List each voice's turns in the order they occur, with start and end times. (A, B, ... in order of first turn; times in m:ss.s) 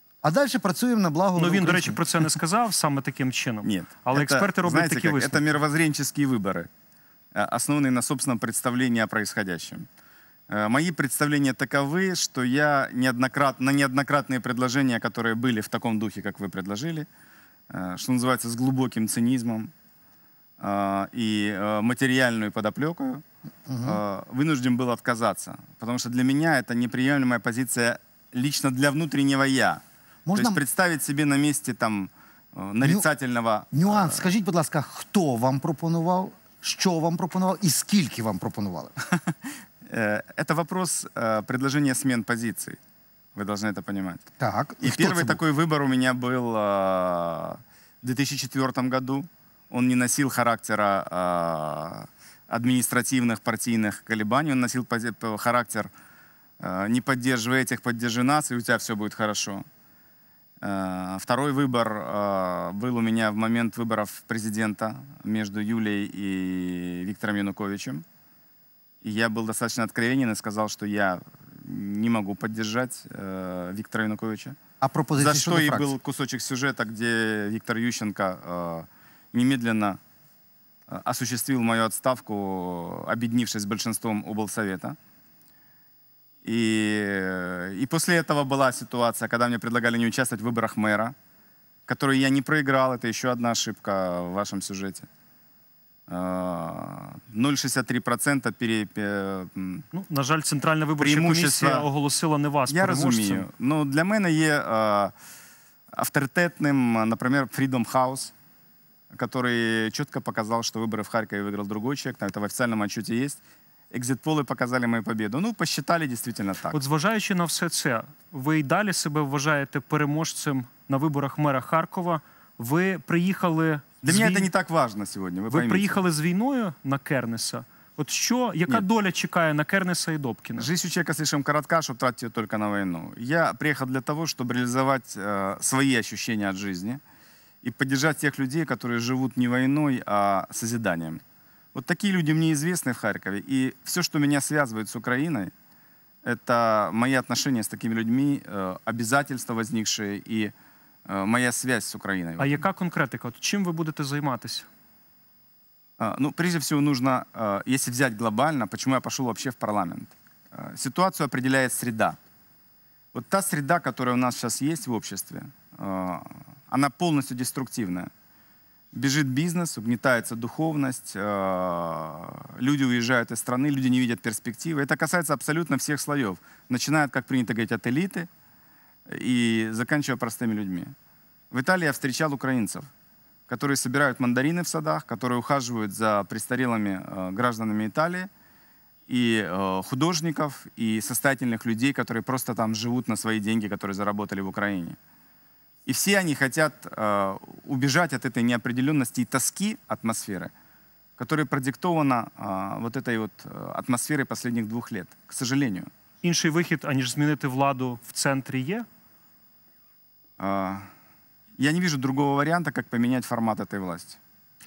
0:00.2-0:02.0 A
0:01.4-0:05.5 B
0:03.6-0:06.7 C
0:07.4-0:09.8 C
0:10.5-0:17.1 C
0:17.7-0:19.7 C
0:20.6-0:23.2 C
0:23.7-0:24.0 A
0:23.8-0:29.8 C
0:30.3-0:30.6 A
0:30.4-0:34.3 C
0:32.8-0:33.1 A
0:33.7-0:38.9 A
0:39.9-0:42.8 C
0:43.4-0:44.3 C
0:44.4-0:45.4 A
0:44.8-0:55.9 C
0:56.6-0:59.6 C
1:00.6-1:08.0 C
1:09.0-1:14.6 C
1:14.8-1:16.0 A
1:15.2-1:20.0 C
1:20.9-1:25.0 C
1:26.4-1:31.1 C
1:31.9-1:35.1 C
1:36.1-1:39.8 C
1:39.9-1:43.5 B
1:41.0-1:41.9 C
1:42.7-1:45.1 C
1:45.9-1:48.3 C
1:49.1-1:53.4 C
1:53.9-1:56.8 C
1:56.7-2:04.5 B
2:04.0-2:06.0 C
2:05.5-2:10.7 B
2:10.6-2:17.0 C
2:17.6-2:21.2 C
2:21.8-2:25.5 C
2:26.2-2:30.5 C
2:31.1-2:32.6 C
2:32.4-2:34.7 B
2:36.0-2:42.2 C
2:43.1-2:48.1 C
2:48.9-2:58.3 C
2:59.1-3:00.9 C
3:01.5-3:02.9 C
3:03.5-3:08.3 C
3:09.1-3:15.0 C
3:15.9-3:20.5 C
3:21.2-3:25.9 C
3:26.2-3:28.9 B
3:30.4-3:30.8 C
3:31.6-3:34.2 C